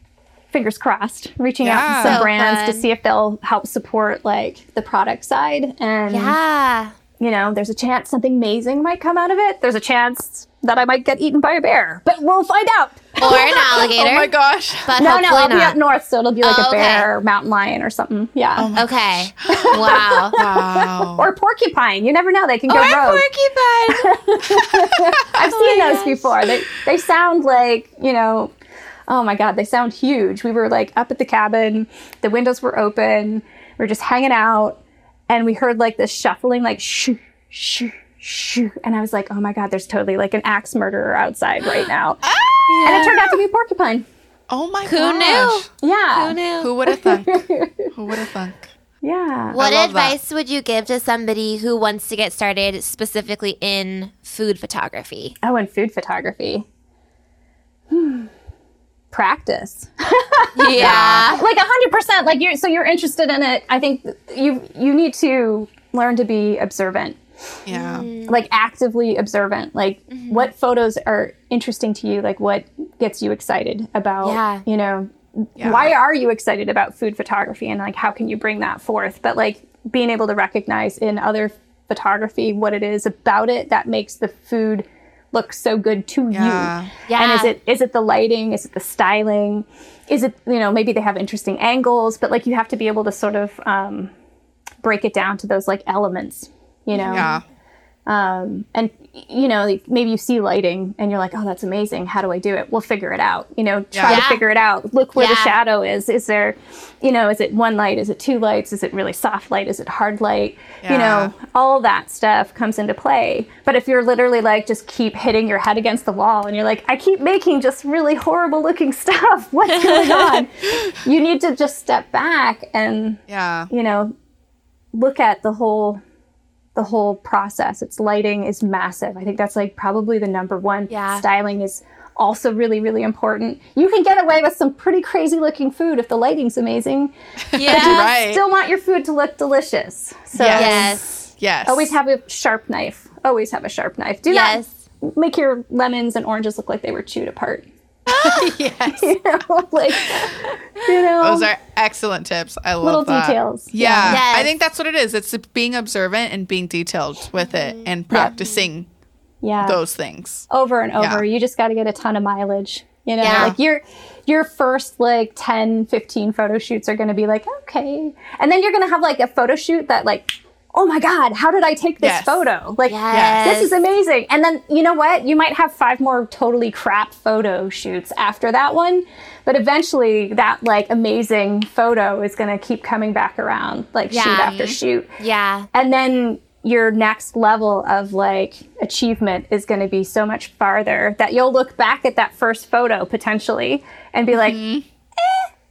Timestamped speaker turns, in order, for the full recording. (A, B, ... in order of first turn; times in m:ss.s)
0:00.5-0:06.4 A
0:01.6-0:02.3 B
0:01.9-0:02.8 C
0:06.1-0:06.9 C
0:07.2-0:13.7 A
0:13.2-0:14.3 C
0:13.9-0:15.0 B
0:14.8-0:15.8 C
0:15.0-0:18.7 A
0:16.4-0:17.1 C
0:18.6-0:21.3 B
0:18.8-0:20.4 C
0:19.5-0:23.2 A
0:22.7-0:24.1 C
0:23.9-0:28.5 A
0:24.8-0:25.1 B
0:25.4-0:26.5 C
0:29.1-0:42.2 A
0:42.3-0:42.8 B
0:42.6-0:43.4 C
0:42.8-0:44.0 A
0:44.5-0:45.7 B
0:44.8-0:46.7 C
0:45.8-0:47.9 A
0:46.6-0:48.6 B
0:49.0-0:49.6 A
0:49.5-0:55.3 C
0:49.5-0:50.2 B
0:55.4-0:56.6 A
0:57.9-0:58.3 A
0:59.1-1:07.2 A
1:00.6-1:01.4 C
1:00.7-1:01.3 B
1:07.6-1:08.1 B
1:07.7-1:08.4 C
1:08.2-1:34.1 A
1:10.1-1:10.5 C
1:14.2-1:14.6 C
1:15.6-1:15.9 B
1:26.3-1:26.9 B
1:27.1-1:27.5 C
1:34.8-1:37.3 A
1:36.9-1:37.4 C
1:37.1-1:37.4 B
1:38.0-2:04.1 A
1:43.9-1:44.2 B
1:44.0-1:44.4 C
1:45.2-1:45.5 C
1:50.8-1:51.3 B
1:59.8-2:00.4 C
2:03.3-2:03.7 B
2:04.9-2:06.0 A
2:06.8-2:21.0 A
2:10.9-2:11.2 C
2:17.5-2:18.4 B
2:17.5-2:18.1 C
2:20.3-2:21.9 B
2:20.5-2:21.1 C
2:21.6-2:31.5 A
2:24.3-2:24.7 C
2:28.1-2:29.2 B
2:29.9-2:30.5 B
2:31.2-2:38.9 B
2:32.8-2:34.2 A
2:34.0-2:34.5 C
2:38.2-2:38.6 C
2:39.4-2:39.8 A
2:39.6-2:40.4 B
2:40.5-3:05.1 A
2:41.0-2:41.2 B
2:43.2-2:43.5 C
2:43.2-2:43.6 B
2:52.0-2:52.4 B
2:52.9-2:53.7 C
2:53.1-2:53.4 B
3:04.1-3:04.5 C
3:04.4-3:04.8 B
3:05.2-3:05.7 C
3:05.7-3:15.5 A
3:14.3-3:14.8 B